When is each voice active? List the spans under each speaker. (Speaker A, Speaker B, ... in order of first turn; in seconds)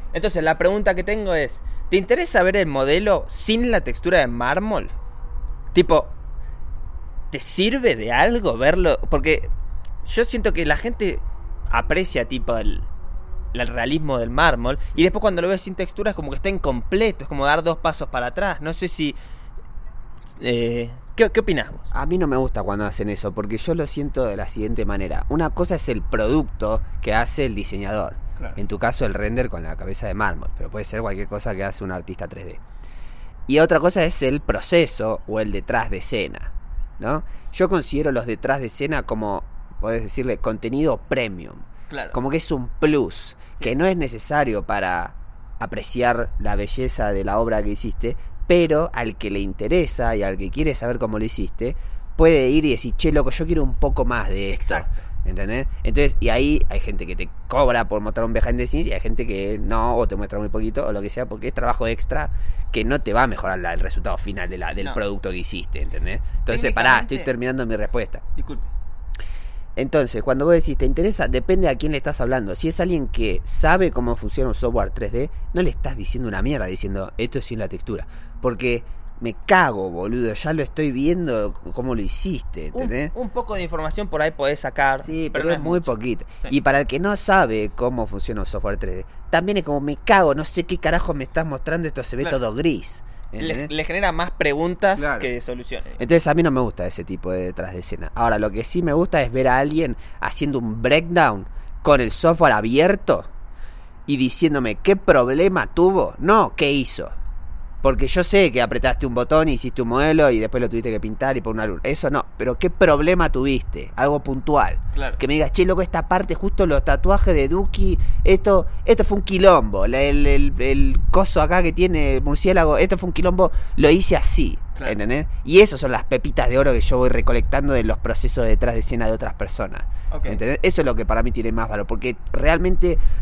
Speaker A: 0.1-4.9, 5.7-6.2, 7.3-9.5, 10.1-12.9, 13.5-19.2, 20.4-21.9, 41.9-42.2, 54.5-55.0, 66.5-67.3, 68.4-68.7, 82.7-86.5, 93.4-96.0, 114.9-115.2, 130.1-130.4
Speaker B: 21.9-32.6, 33.5-68.2, 69.8-83.1, 85.0-93.7, 95.0-95.3, 96.0-103.3, 104.1-107.1, 107.8-133.0